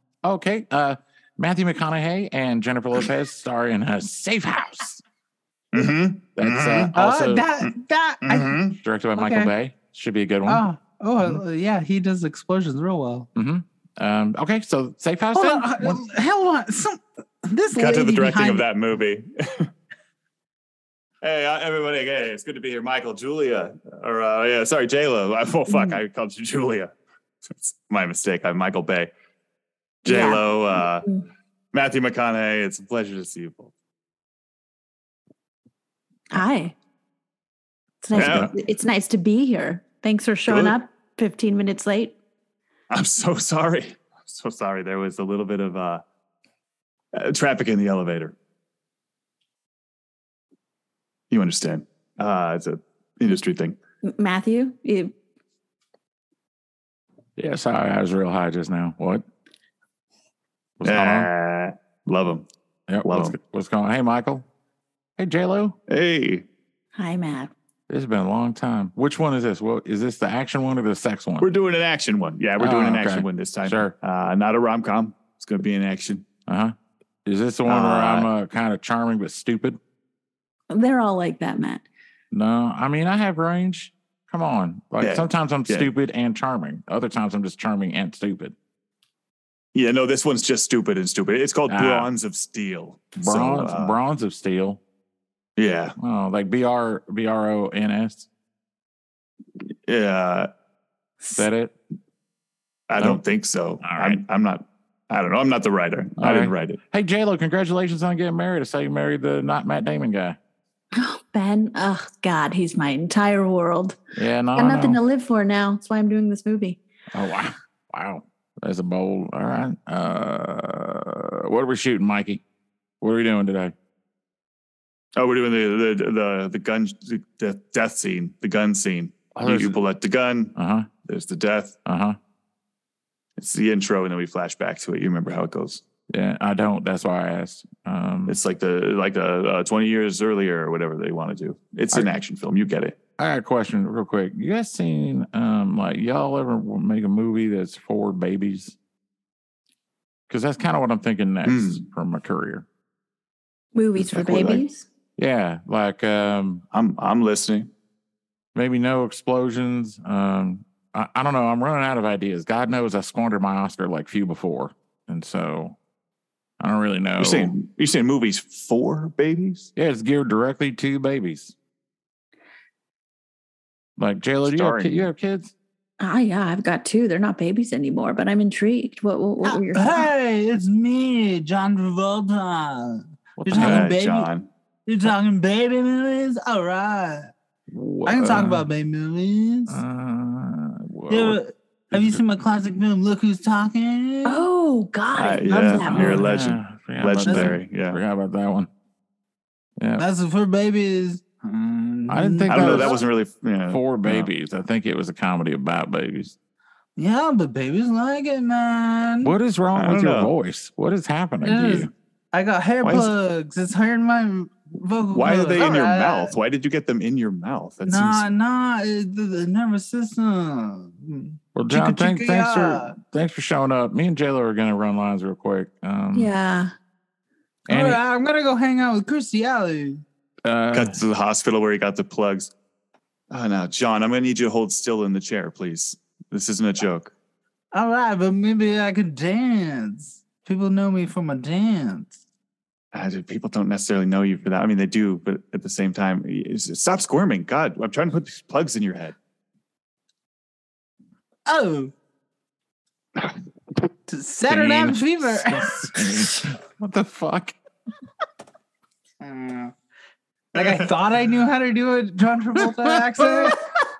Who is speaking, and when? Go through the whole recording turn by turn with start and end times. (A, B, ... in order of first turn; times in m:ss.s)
0:00.2-0:05.0 A
0:05.7-0:06.9 B
0:06.4-0:07.4 A
0:06.9-0:08.6 C
0:08.2-0:08.8 B
0:08.8-0:10.6 A
0:09.2-0:09.5 C
0:10.5-0:13.3 C
0:13.3-0:16.0 A
0:15.3-0:18.6 C
0:17.8-0:19.7 B
0:21.2-0:26.9 B
0:25.7-0:26.0 D
0:27.5-0:29.1 B
0:30.0-0:31.1 B
0:30.0-0:31.2 D
0:31.7-0:33.7 B
0:36.3-0:36.7 D
0:38.0-0:42.2 D
0:38.1-0:38.5 A
0:38.1-0:38.5 B
0:40.5-0:40.8 B
0:42.9-0:46.0 B
0:47.1-0:48.3 B
0:51.3-0:53.8 B
0:54.0-0:55.1 D
0:57.4-0:59.2 A
1:00.8-1:01.3 A
1:00.8-1:02.5 B
1:02.9-1:04.4 A
1:03.0-1:03.4 B
1:05.2-1:05.8 A
1:05.9-1:06.4 B
1:07.0-1:07.5 D
1:07.9-1:11.5 A
1:11.4-1:16.2 B
1:12.6-1:13.9 A
1:16.5-1:19.8 A
1:17.6-1:18.3 B
1:20.7-1:21.8 D
1:22.3-1:28.5 A
1:25.0-1:25.9 B
1:29.7-1:34.0 B
1:31.7-1:32.1 A
1:33.2-1:34.8 A
1:35.6-1:36.0 B
1:36.0-1:38.3 A
1:39.8-1:40.5 B
1:41.3-1:41.7 A
1:42.9-1:46.8 B
1:43.8-1:44.2 A
1:46.2-1:50.4 A
1:50.9-1:54.0 D
1:54.1-1:55.0 A
1:54.6-1:56.8 D
1:57.1-2:02.4 A
2:03.0-2:03.7 A
2:05.2-2:11.8 B
2:09.3-2:09.8 A
2:10.5-2:10.9 A
2:11.8-2:12.2 A
2:13.4-2:15.8 B
2:16.1-2:18.4 A
2:18.3-2:23.0 B
2:23.2-2:28.8 A
2:30.3-2:32.6 A
2:31.4-2:31.8 B
2:33.7-2:34.8 D
2:34.1-2:34.6 B
2:35.2-2:36.6 A
2:36.7-2:37.7 B
2:38.5-2:45.8 A
2:46.6-2:47.5 A
2:47.2-2:49.7 B
2:49.8-2:51.5 A
2:54.0-2:55.5 A
2:54.4-2:55.1 B
2:56.0-3:00.1 D
2:59.5-3:04.3 C
3:03.4-3:03.9 A
3:03.5-3:04.5 B
3:04.8-3:07.3 C
3:07.7-3:08.7 A
3:08.0-3:09.8 C
3:09.7-3:11.4 A
3:11.1-3:14.5 C
3:11.9-3:12.2 A
3:14.2-3:16.3 D
3:15.1-3:18.0 B
3:15.8-3:18.7 A
3:17.2-3:17.6 C
3:19.8-3:20.0 A
3:20.0-3:23.0 C
3:22.1-3:23.0 A
3:22.5-3:24.3 B
3:23.7-3:26.3 A
3:27.0-3:29.3 C
3:29.2-3:31.9 A
3:29.7-3:30.3 B
3:31.4-3:36.4 C
3:32.8-3:33.1 B
3:35.1-3:38.3 B
3:37.8-3:43.0 C
3:41.5-3:46.3 A
3:46.1-3:46.7 D
3:47.7-3:48.0 A
3:47.7-3:50.0 C
3:50.4-3:51.0 A
3:50.7-3:52.5 B
3:53.3-3:57.1 B
3:57.7-4:02.2 C
4:02.9-4:09.2 B
4:11.4-4:11.9 C
4:14.1-4:15.7 C
4:14.5-4:17.5 A
4:19.2-4:19.7 C
4:20.5-4:20.9 B
4:20.5-4:23.6 C
4:22.8-4:23.3 A